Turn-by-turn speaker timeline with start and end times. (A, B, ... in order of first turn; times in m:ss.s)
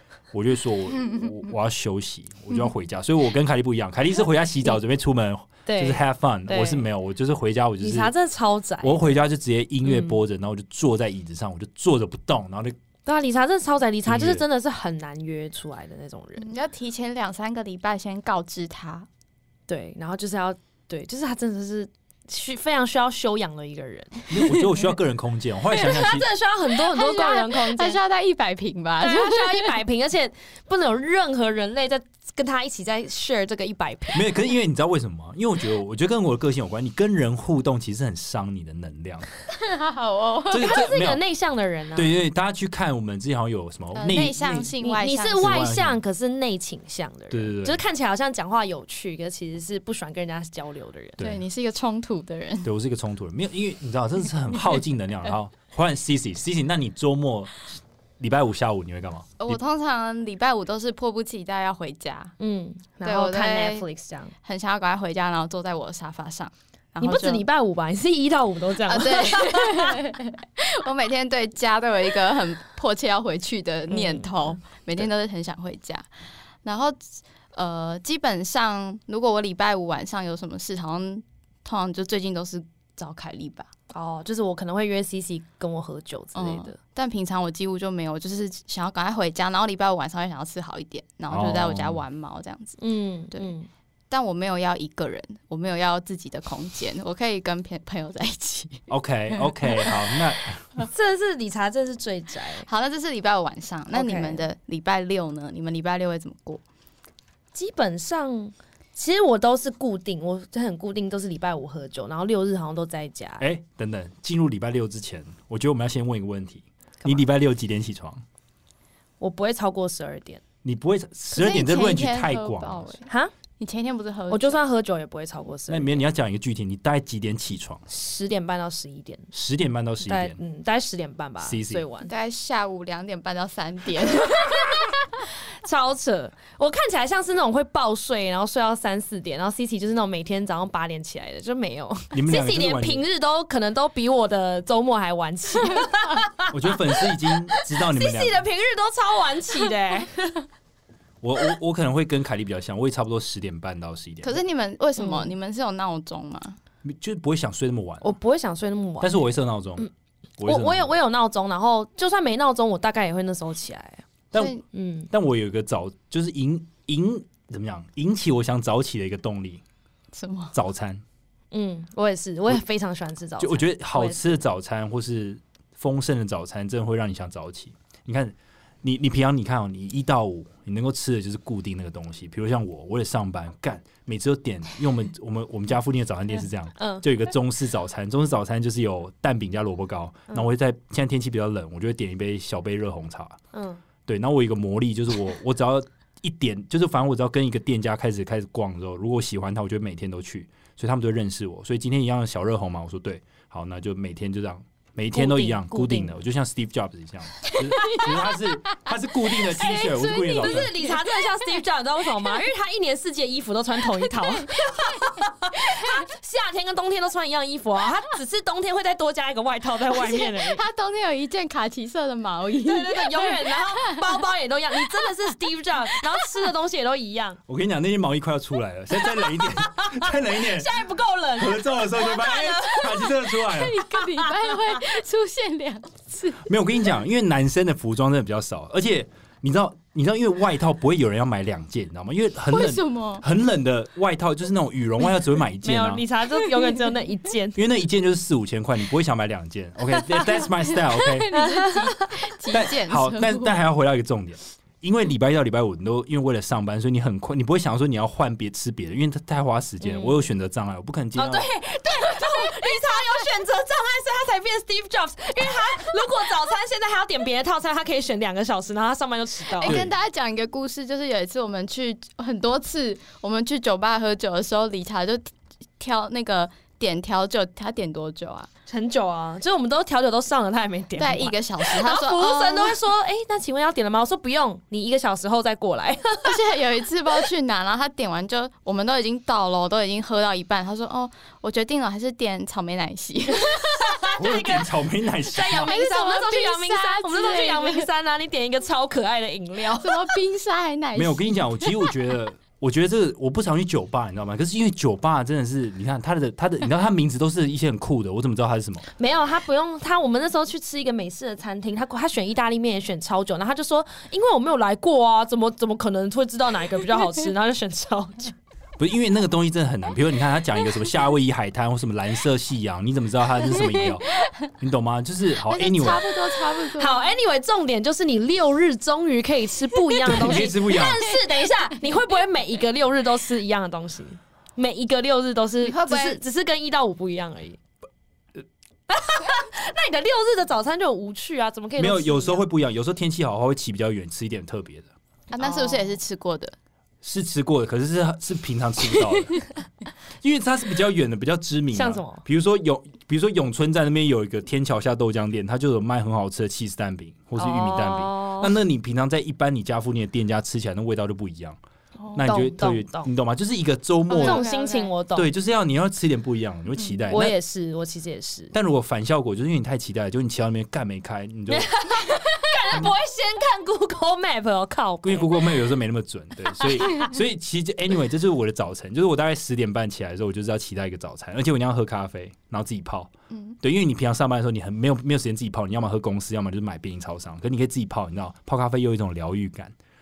0:00.3-0:08.1 A
0:05.6-0:06.8 B
0:07.8-0:09.2 B
0:08.8-0:12.7 A
0:09.8-0:10.2 B
0:13.0-0:16.5 B
0:14.0-0:14.4 A
0:16.4-0:19.1 C
0:19.7-0:24.4 B
0:24.3-0:26.3 A
0:25.7-0:28.0 B
0:26.7-0:29.8 C
0:29.0-0:34.3 B
0:34.1-0:39.3 A
0:39.5-0:40.8 C
0:40.5-0:41.2 A
0:40.5-0:42.2 B
0:41.9-0:44.7 A
0:43.9-0:45.5 C
0:44.8-0:51.2 B
0:45.4-0:46.0 A
0:47.3-0:47.8 A
0:51.2-0:51.4 A
0:51.2-0:52.7 C
0:52.6-0:59.6 A
0:59.4-1:02.3 C
1:02.4-1:04.3 B
1:03.0-1:03.8 C
1:04.4-1:07.4 C
1:07.0-1:10.0 B
1:08.8-1:16.1 C
1:13.9-1:14.3 B
1:16.6-1:23.7 C
1:23.9-1:26.8 B
1:26.3-1:32.8 C
1:31.3-1:32.0 A
1:32.8-1:33.7 B
1:34.1-1:38.9 C
1:38.9-1:40.8 A
1:40.9-1:42.7 B
1:42.6-1:46.6 C
1:43.9-1:44.4 B
1:47.5-1:53.4 B
1:53.4-1:58.2 A
1:59.2-2:00.4 B
2:00.6-2:02.9 A
2:01.3-2:03.1 C
2:03.6-2:04.6 C
2:04.3-2:06.0 B
2:05.7-2:07.8 A
2:07.9-2:09.3 B
2:09.3-2:10.4 A
2:10.0-2:12.1 B
2:11.4-2:11.8 A
2:12.0-2:14.8 C
2:14.2-2:14.9 B
2:15.5-2:30.4 B
2:22.1-2:23.0 A
2:26.5-2:28.4 A
2:31.2-2:34.4 A
2:34.2-2:36.6 C
2:35.0-2:35.3 B
2:36.8-2:38.1 A
2:38.0-2:39.2 B
2:39.0-2:40.9 A
2:40.4-2:44.0 B
2:44.3-2:44.6 C
2:44.7-2:45.1 B
2:45.1-2:49.6 A
2:50.1-2:50.5 C
2:50.5-2:51.0 A
2:51.5-2:54.4 B
2:53.4-3:13.4 A
3:06.8-3:07.0 B
3:13.5-3:13.8 B
3:14.1-3:30.7 A
3:25.1-3:26.1 B
3:27.5-3:28.2 B
3:27.9-3:28.1 C
3:29.3-3:40.6 B
3:30.2-3:31.0 C
3:39.9-3:44.2 C
3:42.6-3:47.4 B
3:44.8-3:45.1 C
3:46.0-3:46.3 C
3:47.5-3:50.8 A
3:49.0-3:53.3 B
3:51.4-3:53.8 A
3:53.3-3:56.4 C
3:53.9-3:54.8 B
3:56.4-4:06.0 A
4:02.5-4:03.2 C
4:05.6-4:07.6 B
4:07.5-4:11.3 A
4:10.8-4:13.6 C
4:11.3-4:12.2 B
4:12.5-4:21.5 A
4:19.8-4:20.2 B
4:21.2-4:29.8 B
4:22.0-4:23.0 C
4:29.6-4:38.5 C
4:29.6-4:29.9 A
4:38.7-4:46.4 B
4:41.0-4:42.8 C
4:46.2-4:54.1 C
4:53.3-4:54.7 B
4:54.2-4:55.7 A
4:55.3-5:00.1 B
4:55.4-4:57.9 C
4:59.8-5:01.4 C
5:00.9-5:08.8 A
5:09.0-5:18.3 B
5:18.8-5:26.0 A
5:23.5-5:24.0 C
5:25.5-5:27.0 C
5:26.8-5:37.6 B
5:30.0-5:31.0 A
5:31.0-5:31.5 C
5:35.6-5:36.2 C
5:38.9-5:42.4 B
5:41.8-5:44.9 A
5:45.3-5:46.5 C
5:45.3-5:46.0 B
5:47.0-5:49.5 A
5:50.2-6:01.6 A
5:51.7-5:52.2 B
5:57.4-5:58.6 B
6:02.1-6:03.1 B
6:02.1-6:04.4 A
6:04.1-6:04.9 C
6:04.1-6:05.3 B
6:05.1-6:07.4 A
6:07.1-6:08.5 B
6:08.5-6:11.7 A
6:11.5-6:15.6 B
6:15.0-6:29.7 A
6:16.6-6:17.1 B
6:23.3-6:23.6 C